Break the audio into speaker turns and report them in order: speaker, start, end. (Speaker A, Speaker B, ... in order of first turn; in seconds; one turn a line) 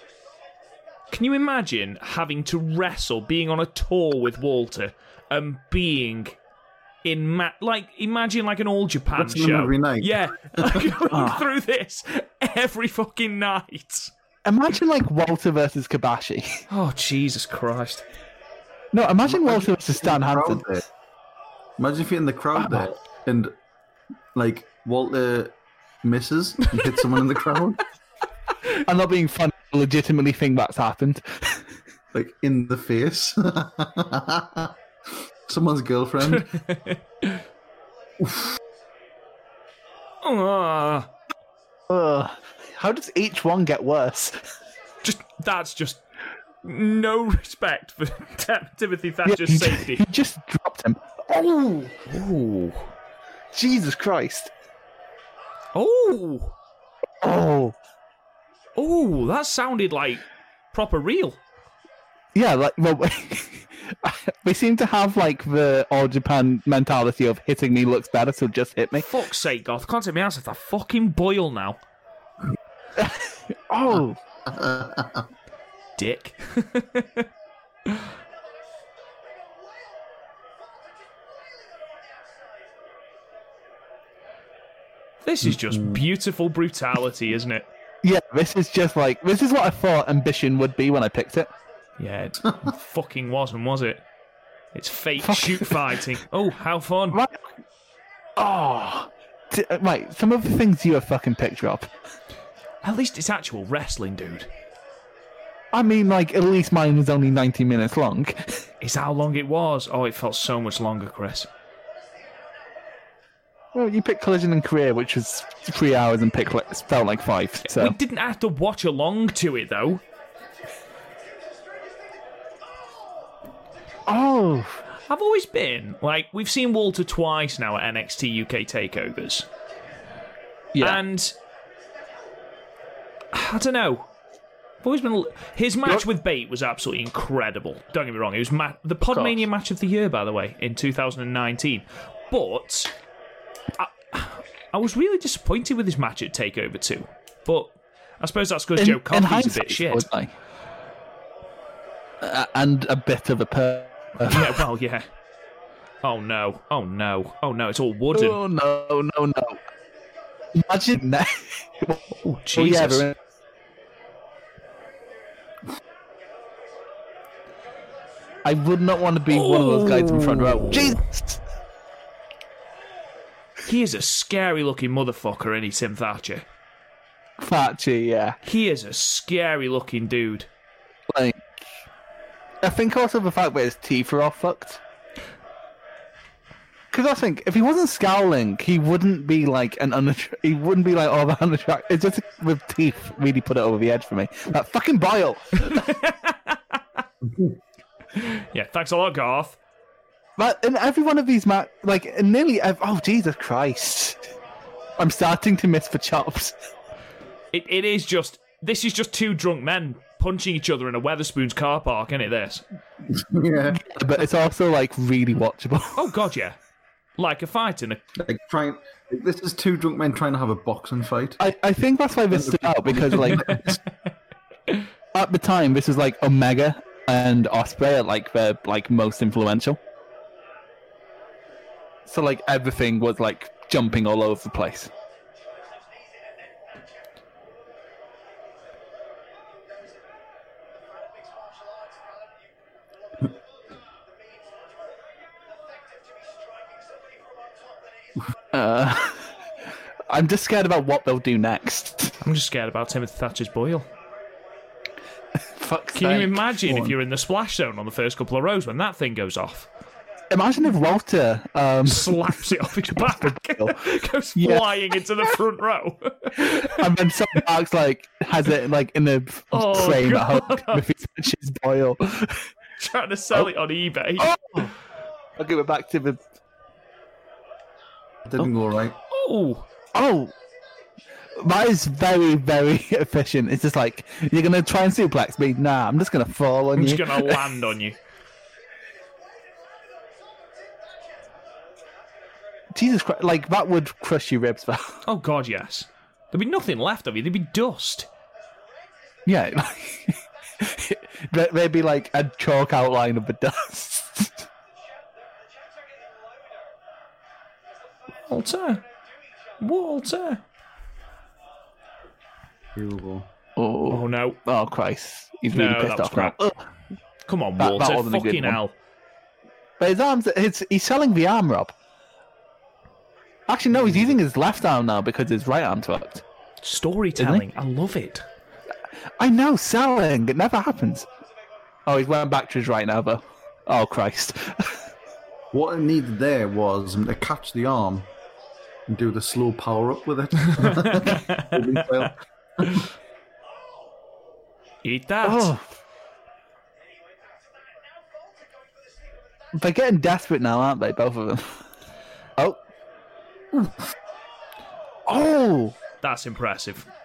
Speaker A: 1.1-6.4
Speaker A: 7.0-14.1
Speaker B: 9.2-10.9
Speaker C: 11.1-11.4
Speaker C: 14.4-16.6
Speaker A: 16.7-18.1
Speaker C: 18.9-20.6
Speaker B: 19.3-20.8
Speaker B: 21.8-23.5
Speaker C: 22.6-22.9
Speaker B: 24.3-27.8
Speaker C: 28.8-31.6
Speaker B: 32.1-34.7
Speaker B: 35.5-36.5
Speaker A: 36.2-37.4
Speaker A: 40.2-41.1
Speaker C: 41.9-44.4
Speaker A: 45.0-46.0
Speaker A: 46.6-50.0
Speaker C: 49.2-52.0
Speaker A: 52.0-52.9
Speaker C: 53.5-54.5
Speaker A: 55.7-56.5
Speaker C: 57.2-57.8
Speaker A: 58.8-61.4
Speaker C: 62.3-69.0
Speaker A: 69.0-71.8
Speaker C: 73.0-74.2
Speaker B: 74.5-75.2
Speaker A: 76.0-77.2
Speaker A: 85.2-87.7
Speaker B: 85.5-86.0
Speaker C: 88.0-91.5
Speaker A: 92.0-94.0
Speaker A: 94.7-97.2
Speaker C: 95.2-95.8
Speaker C: 97.1-97.5
Speaker C: 98.4-101.9
Speaker A: 102.8-104.5
Speaker C: 105.7-108.6
Speaker A: 108.8-111.5
Speaker C: 113.7-118.0
Speaker A: 117.6-120.0
Speaker C: 124.0-124.8
Speaker A: 125.1-129.5
Speaker C: 130.7-131.0
Speaker A: 130.8-131.3
Speaker A: 133.3-134.1
Speaker A: 134.8-142.9
Speaker C: 139.1-139.4
Speaker A: 143.8-150.1
Speaker C: 148.8-150.3
Speaker C: 152.2-154.6
Speaker A: 154.2-155.1
Speaker A: 156.0-158.4
Speaker C: 158.1-159.6
Speaker C: 160.5-163.2
Speaker A: 162.2-163.1
Speaker C: 168.4-171.4
Speaker A: 169.3-171.0
Speaker A: 173.7-176.4
Speaker C: 177.4-178.4
Speaker A: 178.4-180.5
Speaker C: 181.1-181.4
Speaker C: 182.6-184.8
Speaker C: 186.9-195.9
Speaker A: 195.6-196.8
Speaker A: 198.1-199.6
Speaker C: 200.4-204.2
Speaker C: 205.0-206.6
Speaker A: 207.5-212.6
Speaker B: 213.1-213.8
Speaker C: 213.7-216.1
Speaker A: 215.9-216.6
Speaker A: 217.2-218.0
Speaker B: 218.2-221.4
Speaker C: 221.4-223.6
Speaker B: 222.3-223.8
Speaker A: 223.5-223.8
Speaker C: 225.1-229.8
Speaker C: 232.1-234.9
Speaker C: 248.5-249.3
Speaker C: 250.1-252.2
Speaker A: 252.2-253.9
Speaker C: 255.5-256.4
Speaker A: 255.9-259.7
Speaker C: 260.3-263.8
Speaker A: 261.8-266.9
Speaker C: 264.3-264.9
Speaker C: 266.4-272.5
Speaker A: 269.5-270.8
Speaker A: 272.8-274.3
Speaker C: 274.2-274.7
Speaker C: 275.4-276.2
Speaker B: 278.2-278.9
Speaker A: 279.1-279.6
Speaker C: 279.9-280.3
Speaker C: 281.4-287.5
Speaker A: 286.8-288.0
Speaker C: 292.7-295.0
Speaker A: 295.0-298.1
Speaker C: 299.2-304.5
Speaker A: 308.3-308.8
Speaker A: 309.6-310.4
Speaker B: 312.7-313.3
Speaker C: 313.6-316.6
Speaker A: 313.9-314.4
Speaker A: 315.5-316.3
Speaker A: 317.2-318.7
Speaker C: 317.6-318.6
Speaker C: 319.8-321.7
Speaker C: 323.5-326.2
Speaker A: 326.6-328.2
Speaker C: 327.2-327.4
Speaker C: 329.2-331.1
Speaker C: 331.9-334.8
Speaker B: 335.5-338.1
Speaker B: 338.9-342.9
Speaker A: 340.6-341.8
Speaker A: 344.8-345.5
Speaker C: 345.2-345.6
Speaker C: 349.5-351.6
Speaker C: 355.1-355.8
Speaker A: 356.0-356.9